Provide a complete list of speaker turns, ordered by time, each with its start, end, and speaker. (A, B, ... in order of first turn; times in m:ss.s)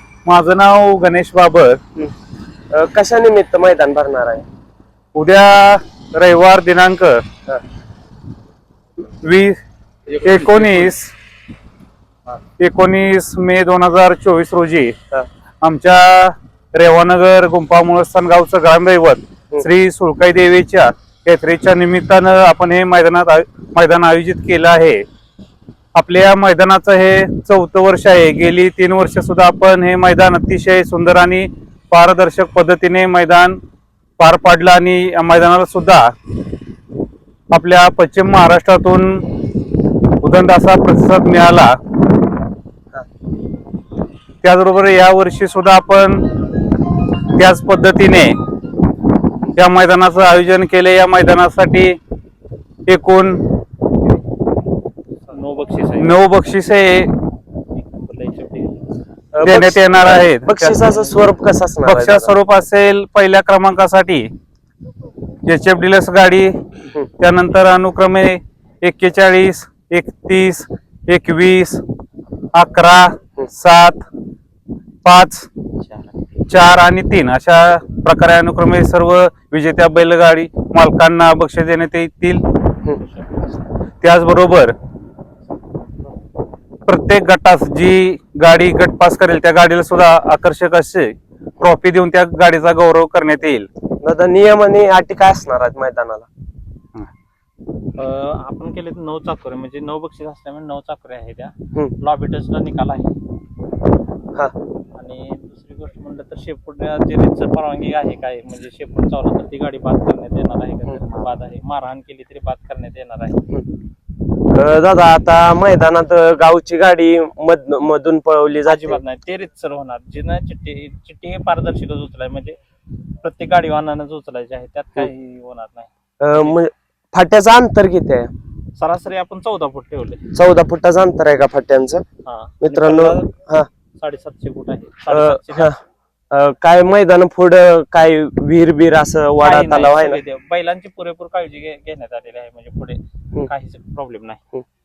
0:00.2-0:01.8 A
0:02.7-0:04.4 B
0:05.1-0:07.2 A
0:09.2-0:09.6 A
0:10.2-0:11.1 A
0:12.6-0:15.0 A
0:15.6-0:25.0 A
0:25.9-0:33.6 A
0:34.2-0:36.1 A
0:37.5-0:39.2 A
0:40.2-0:41.7 A
0:44.4-0:46.2 A
0:47.4-0:48.4 A
0:49.6-0:52.0 A
0:52.9-0:53.4 A
0:55.3-0:56.2 C
0:56.0-0:57.2 A
0:57.7-0:58.8 C
0:59.3-1:02.3 B
0:59.4-1:00.9 A
1:01.9-1:04.3 A
1:05.4-1:06.5 A
1:07.2-1:11.8 A
1:12.5-1:14.0 A
1:15.0-1:15.5 A
1:15.8-1:16.2 C
1:16.5-1:22.4 A
1:23.0-1:23.6 C
1:24.0-1:24.7 A
1:25.8-1:26.1 C
1:26.8-1:33.7 A
1:34.0-1:36.3 B
1:38.0-1:43.2 C
1:45.0-1:53.4 C
1:54.5-1:59.0 B
1:58.6-2:02.6 C
2:03.2-2:06.5 C
2:06.2-2:08.3 B
2:08.8-2:10.3 C
2:10.3-2:12.0 B
2:12.2-2:13.3 C
2:12.6-2:13.7 B
2:14.0-2:15.7 C
2:15.1-2:15.8 B
2:16.3-2:20.2 B
2:19.4-2:24.4 C